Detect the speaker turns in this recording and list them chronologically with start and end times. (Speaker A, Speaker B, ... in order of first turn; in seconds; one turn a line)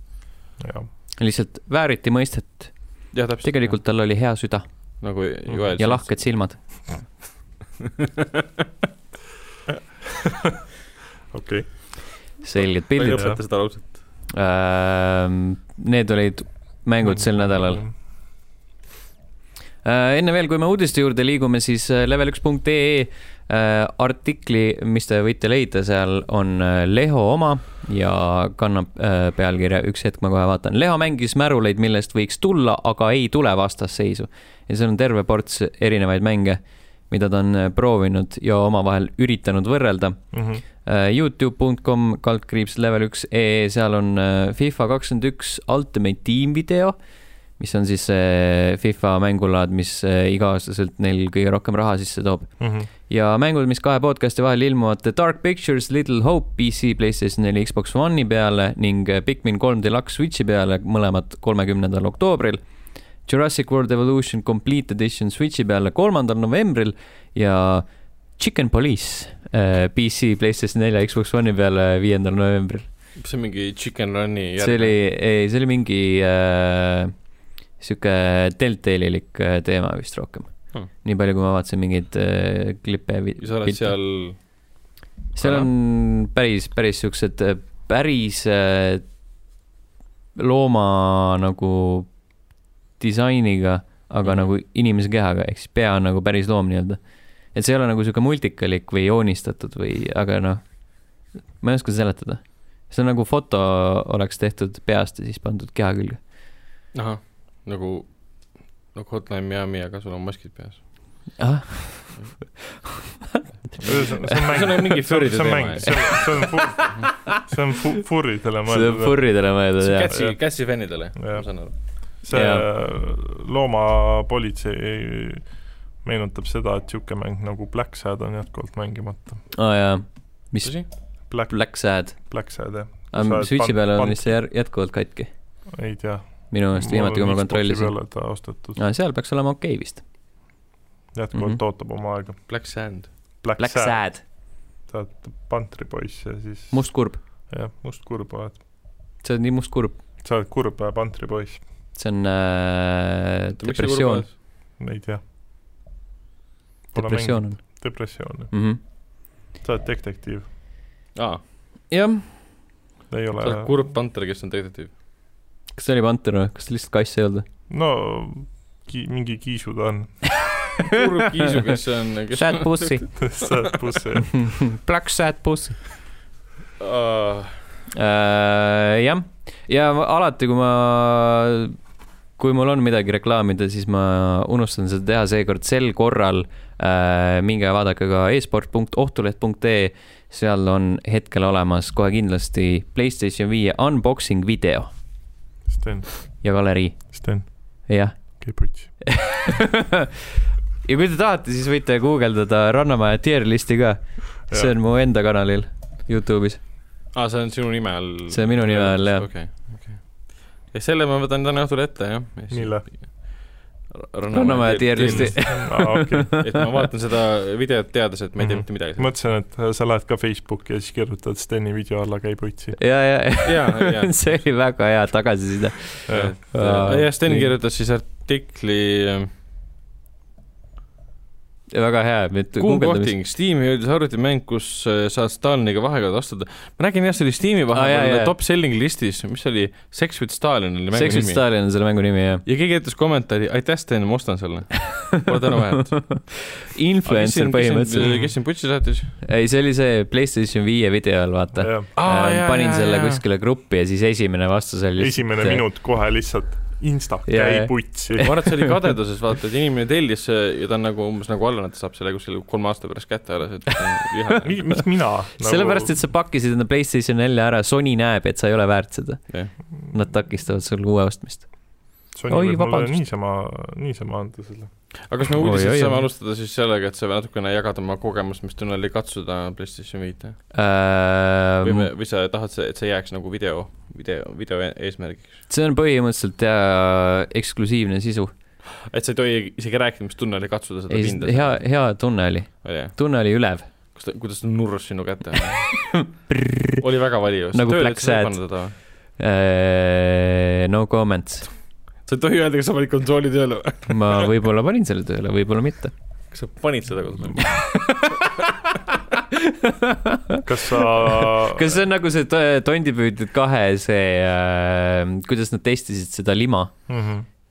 Speaker A: 0.6-0.9
Speaker B: 1.2-5.0
Speaker C: 3.1-3.8
Speaker C: 5.0-6.8
Speaker B: 5.8-6.8
Speaker A: 11.3-12.3
Speaker B: 12.4-13.5
Speaker C: 12.9-14.0
Speaker A: 13.0-13.4
Speaker B: 14.3-17.9
Speaker A: 17.0-17.9
Speaker B: 19.8-47.0
Speaker A: 40.3-40.6
Speaker B: 47.5-62.6
Speaker A: 52.6-52.9
Speaker B: 63.2-72.9
Speaker C: 73.2-75.0
Speaker B: 74.6-77.2
Speaker B: 77.7-84.0
Speaker C: 83.4-84.8
Speaker B: 85.3-89.1
Speaker C: 85.4-85.7
Speaker B: 90.3-92.2
Speaker B: 92.9-106.2
Speaker C: 94.2-94.5
Speaker C: 106.9-111.2
Speaker B: 111.4-112.5
Speaker C: 112.1-112.6
Speaker C: 113.7-117.1
Speaker A: 113.8-119.5
Speaker B: 118.7-120.1
Speaker C: 119.8-121.8
Speaker A: 120.1-120.4
Speaker A: 121.1-129.5
Speaker B: 122.3-122.7
Speaker B: 129.5-132.6
Speaker C: 130.6-130.9
Speaker A: 131.3-134.4
Speaker B: 133.1-135.3
Speaker A: 135.7-138.8
Speaker B: 136.5-140.0
Speaker A: 141.1-142.5
Speaker B: 141.3-141.6
Speaker C: 142.5-143.1
Speaker A: 143.4-148.6
Speaker B: 143.6-144.2
Speaker B: 146.7-147.2
Speaker B: 149.2-150.0
Speaker A: 150.2-151.6
Speaker B: 151.9-154.2
Speaker C: 153.6-154.3
Speaker A: 154.8-155.2
Speaker A: 156.9-158.9
Speaker B: 156.9-158.8
Speaker A: 159.6-160.4
Speaker C: 161.1-161.4
Speaker B: 161.9-162.4
Speaker A: 163.1-163.8
Speaker C: 163.4-164.9
Speaker B: 165.7-167.4
Speaker A: 167.7-170.4
Speaker C: 170.9-173.7
Speaker B: 172.3-173.5
Speaker A: 173.2-174.7
Speaker B: 174.3-175.8
Speaker C: 176.8-177.6
Speaker B: 177.9-181.8
Speaker B: 182.3-194.9
Speaker A: 195.7-196.4
Speaker B: 196.4-200.0
Speaker A: 197.1-199.1
Speaker B: 200.8-206.6
Speaker A: 204.5-204.7
Speaker C: 207.1-215.6
Speaker B: 208.3-209.3
Speaker A: 212.5-212.8
Speaker B: 214.3-216.6
Speaker A: 215.0-216.6
Speaker C: 216.4-219.2
Speaker A: 218.4-222.8
Speaker B: 222.8-227.5
Speaker C: 223.4-224.4
Speaker C: 226.1-229.3
Speaker A: 226.1-226.3
Speaker B: 231.7-233.1
Speaker C: 232.6-241.7
Speaker B: 237.7-238.3
Speaker B: 240.9-242.4
Speaker C: 242.4-249.2
Speaker B: 245.8-248.4
Speaker B: 249.2-255.7
Speaker A: 251.6-251.9
Speaker C: 251.9-253.2
Speaker A: 255.0-258.4
Speaker B: 257.3-258.6
Speaker C: 258.2-264.8
Speaker A: 264.4-266.0
Speaker B: 265.4-273.0
Speaker A: 272.1-274.9
Speaker C: 275.0-280.5
Speaker B: 275.4-276.1
Speaker B: 280.5-281.9
Speaker C: 281.6-285.5
Speaker B: 285.5-288.3
Speaker C: 288.9-291.9
Speaker B: 290.9-293.7
Speaker C: 292.6-296.2
Speaker B: 295.9-296.8
Speaker C: 296.8-298.8
Speaker B: 297.5-301.5
Speaker C: 302.0-304.3
Speaker B: 303.9-305.9
Speaker C: 306.3-308.2
Speaker B: 307.6-307.9
Speaker B: 309.6-310.4
Speaker A: 310.4-311.8
Speaker B: 311.0-316.9
Speaker A: 316.9-317.3